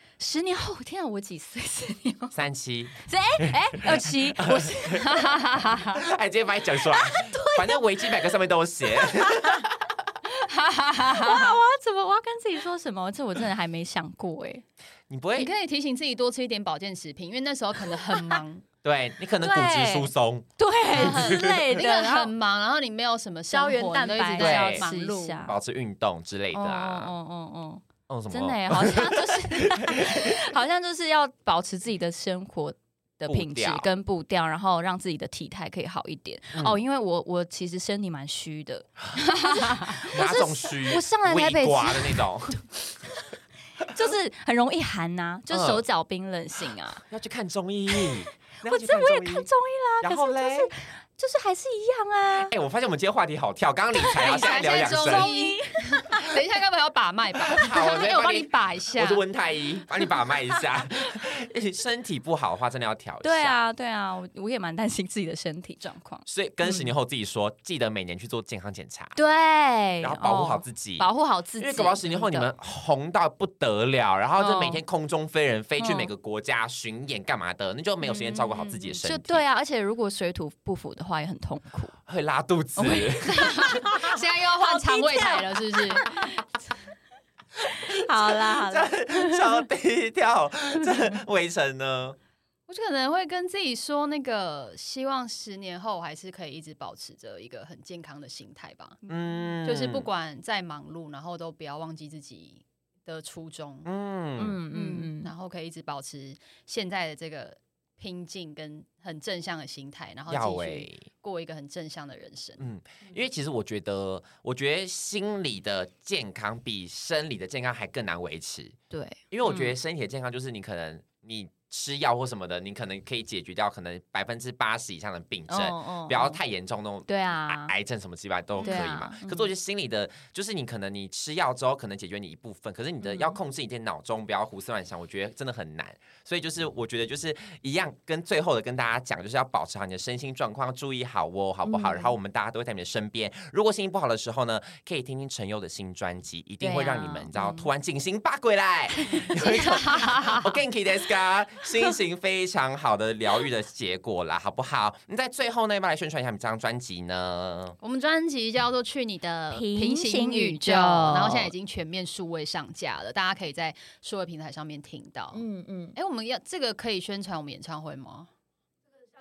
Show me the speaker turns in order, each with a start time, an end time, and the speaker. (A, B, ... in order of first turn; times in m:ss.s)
0:00.2-0:02.4 A
0:02.3-0:05.1 B
0:03.0-0:06.0 A
0:05.8-0:09.8 B
0:06.9-0:08.3 A
0:09.0-0:09.6 A
0:10.3-0:11.6 C
0:11.0-0:14.6 A
0:15.1-0:15.5 B
0:15.4-0:18.6 C
0:18.8-0:21.6 B
0:19.4-0:22.3 A
0:21.0-0:25.5 C
0:23.5-0:25.6 A
0:24.4-0:24.9 B
0:25.5-0:27.1 B
0:26.5-0:42.3 A
0:28.1-0:30.4 B
0:33.3-0:33.9 B
0:36.5-0:36.8 B
0:39.9-0:42.6 B
0:43.9-0:47.0 A
0:45.5-0:45.8 B
0:47.1-0:49.5 B
0:48.0-0:52.5 A
0:50.0-0:50.7 B
0:52.5-0:55.3 B
0:54.0-0:56.4 A
0:54.2-0:59.2 C
0:57.5-1:03.6 B
1:03.2-1:06.9 A
1:06.3-1:09.2 B
1:09.2-1:12.5 A
1:10.0-1:11.1 B
1:11.6-1:19.4 B
1:14.4-1:14.8 A
1:15.8-1:16.1 A
1:18.0-1:22.0 A
1:22.1-1:23.8 B
1:22.8-1:26.4 A
1:22.8-1:26.1 C
1:27.6-1:29.6 A
1:27.8-1:32.2 B
1:32.7-1:39.0 C
1:39.1-1:40.1 B
1:39.6-1:43.9 C
1:43.8-1:44.6 B
1:44.4-1:45.3 A
1:44.7-1:52.6 C
1:50.3-1:51.1 B
1:52.6-1:58.8 B
1:58.9-1:59.8 A
1:59.3-2:37.8 B
2:05.5-2:06.4 A
2:07.1-2:07.7 A
2:08.6-2:09.5 A
2:13.0-2:13.4 A
2:21.6-2:22.1 A
2:26.6-2:27.6 A
2:29.0-2:29.7 A
2:29.4-2:30.5 C
2:37.8-2:45.4 C
2:39.5-2:41.5 A
2:45.3-2:46.0 A
2:46.0-2:48.3 C